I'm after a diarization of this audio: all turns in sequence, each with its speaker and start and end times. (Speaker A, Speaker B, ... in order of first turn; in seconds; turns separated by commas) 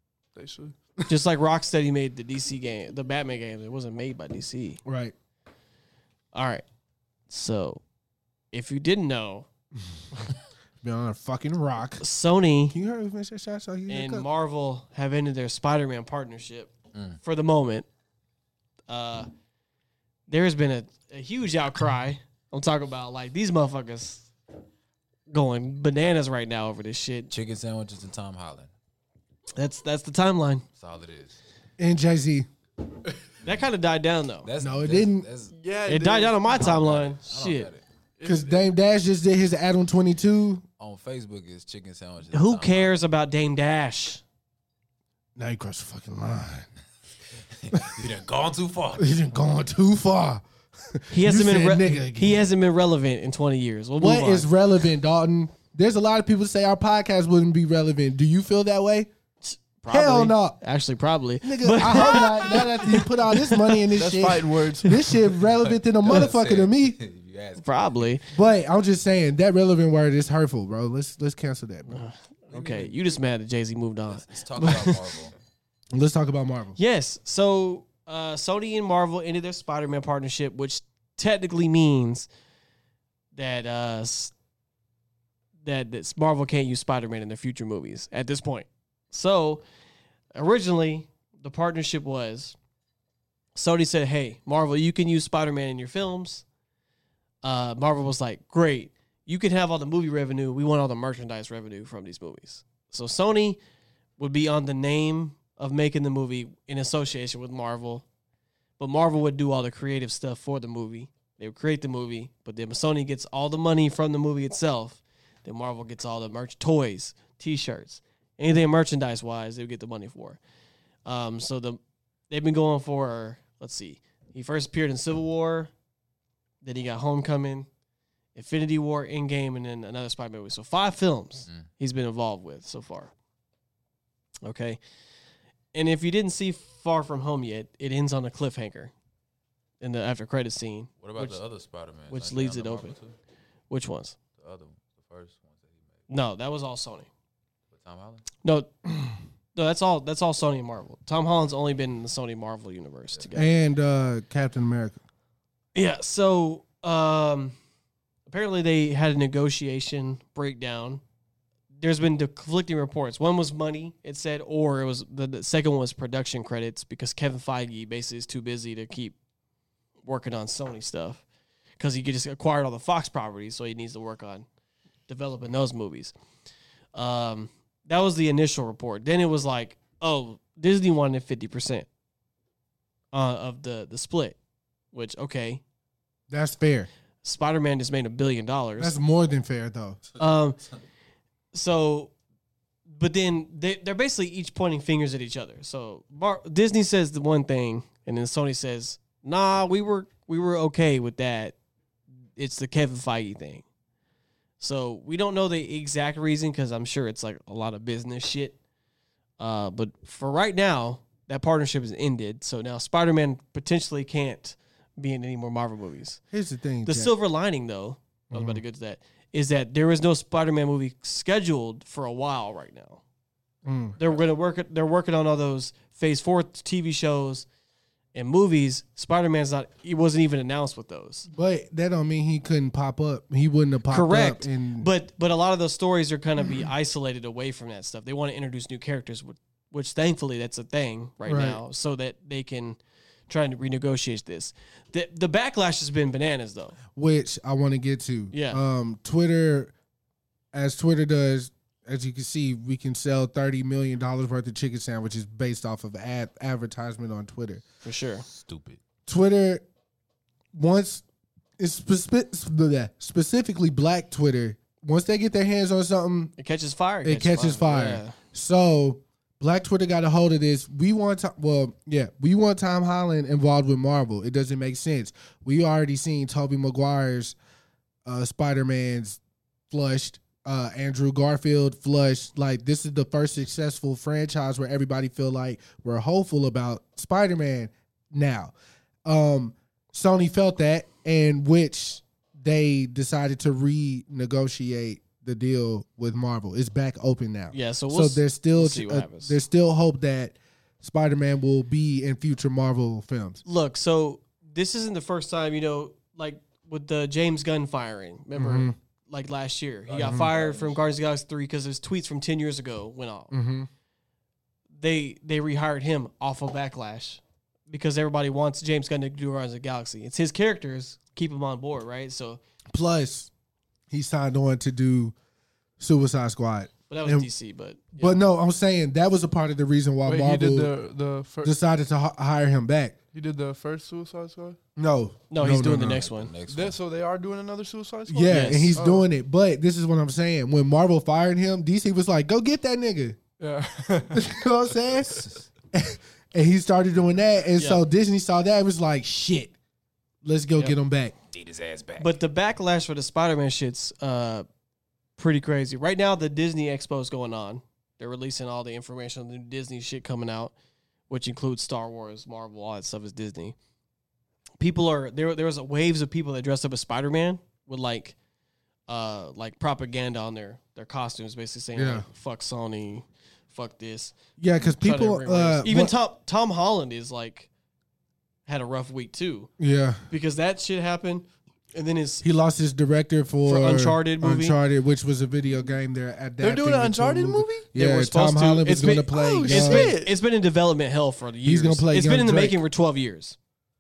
Speaker A: 0.3-0.8, Speaker B: 1.1-4.8, Speaker C: 4.8-5.1, Speaker B: 6.3-6.6, Speaker B: 7.3-7.8, Speaker B: 8.5-9.4, Speaker C: 10.8-12.0, Speaker B: 12.0-12.8, Speaker C: 12.7-14.3, Speaker B: 13.9-17.9, Speaker D: 16.9-17.2, Speaker B: 18.9-19.3, Speaker B: 20.3-24.3, Speaker B: 25.3-27.3, Speaker D: 27.3-28.7, Speaker B: 29.6-30.6, Speaker D: 30.8-31.4, Speaker C: 31.8-32.5, Speaker B: 33.4-34.5, Speaker D: 34.4-35.5, Speaker C: 34.6-35.3, Speaker A: 35.5-36.5, Speaker B: 35.9-37.7, Speaker D: 36.5-37.8, Speaker A: 38.2-38.6, Speaker C: 38.2-40.6, Speaker D: 40.8-43.0, Speaker B: 42.3-44.2, Speaker C: 45.4-46.7, Speaker D: 47.6-49.1, Speaker C: 49.0-50.4, Speaker C: 50.9-52.4, Speaker B: 51.1-54.5, Speaker C: 54.0-59.1, Speaker B: 59.4-63.8, Speaker C: 59.9-60.6, Speaker C: 61.4-67.0, Speaker A: 63.9-65.0, Speaker D: 65.6-68.1, Speaker B: 67.6-68.2, Speaker C: 68.3-72.0, Speaker B: 71.9-75.0, Speaker D: 72.5-73.0, Speaker D: 74.1-75.3, Speaker C: 75.9-76.8, Speaker B: 76.8-82.3, Speaker B: 83.3-84.3, Speaker B: 85.6-89.6, Speaker B: 90.3-92.5, Speaker B: 93.5-96.4, Speaker B: 97.4-103.6, Speaker B: 104.2-108.0, Speaker B: 108.8-120.4, Speaker B: 121.0-121.8, Speaker B: 122.3-125.7, Speaker B: 126.6-127.7, Speaker B: 128.3-133.1, Speaker B: 134.4-134.8, Speaker B: 135.7-138.9, Speaker B: 139.8-141.4, Speaker D: 141.0-143.1, Speaker B: 142.1-142.9, Speaker B: 143.7-144.2, Speaker D: 144.4-145.9, Speaker B: 146.1-147.1, Speaker D: 147.7-148.2, Speaker B: 148.4-148.7, Speaker B: 149.5-153.5, Speaker C: 153.3-155.0, Speaker B: 155.7-157.5, Speaker B: 158.3-161.0, Speaker B: 161.8-169.1, Speaker B: 170.0-171.2, Speaker B: 171.8-174.4, Speaker B: 175.1-176.1, Speaker B: 176.9-181.8, Speaker B: 183.1-184.4, Speaker B: 184.9-185.6, Speaker C: 186.3-186.9, Speaker B: 187.2-188.9, Speaker C: 188.8-190.0, Speaker B: 190.2-190.6, Speaker B: 191.5-192.1, Speaker B: 192.9-201.5, Speaker B: 202.4-203.6, Speaker B: 204.6-208.6, Speaker B: 209.4-216.2, Speaker C: 216.3-217.1, Speaker B: 216.8-223.0, Speaker C: 218.3-218.6, Speaker C: 223.6-224.0, Speaker B: 224.0-227.4, Speaker B: 228.1-231.3, Speaker C: 231.3-234.9, Speaker B: 233.9-242.8, Speaker C: 241.2-241.6, Speaker B: 243.3-246.8, Speaker C: 246.9-249.7, Speaker B: 248.3-248.6, Speaker C: 250.5-257.6, Speaker B: 257.8-258.2, Speaker D: 258.3-258.8, Speaker C: 259.1-259.6, Speaker C: 260.5-261.0, Speaker C: 261.6-266.3, Speaker B: 266.4-268.1, Speaker C: 267.0-277.4, Speaker C: 278.1-279.2, Speaker C: 279.7-288.5, Speaker C: 289.0-303.4, Speaker B: 297.5-299.4, Speaker B: 303.4-313.3, Speaker C: 308.3-308.8, Speaker D: 309.9-310.8, Speaker C: 310.0-310.3, Speaker C: 313.3-313.7, Speaker B: 314.8-322.4, Speaker C: 322.7-323.3, Speaker C: 323.9-325.1, Speaker C: 325.8-327.3, Speaker B: 326.9-328.2, Speaker C: 328.0-330.7, Speaker A: 330.0-331.5, Speaker C: 331.4-332.9, Speaker A: 333.1-334.6, Speaker C: 334.8-336.0, Speaker B: 335.3-336.3, Speaker D: 335.8-336.8, Speaker A: 336.5-339.0, Speaker C: 338.1-343.2, Speaker B: 338.3-338.8, Speaker A: 343.4-344.3, Speaker C: 344.1-349.5, Speaker B: 347.6-347.8, Speaker C: 350.2-351.1, Speaker D: 351.3-352.2, Speaker B: 352.0-354.5, Speaker B: 355.2-360.5, Speaker B: 361.1-363.5, Speaker B: 364.6-368.1, Speaker B: 368.9-374.1, Speaker C: 371.7-372.1, Speaker C: 374.4-375.9, Speaker B: 374.8-377.5, Speaker B: 378.5-379.5, Speaker C: 379.6-380.0, Speaker B: 380.1-382.2, Speaker C: 382.2-389.9, Speaker B: 383.4-384.6, Speaker A: 386.4-387.7, Speaker B: 387.8-393.4, Speaker A: 389.1-390.1, Speaker C: 391.4-392.6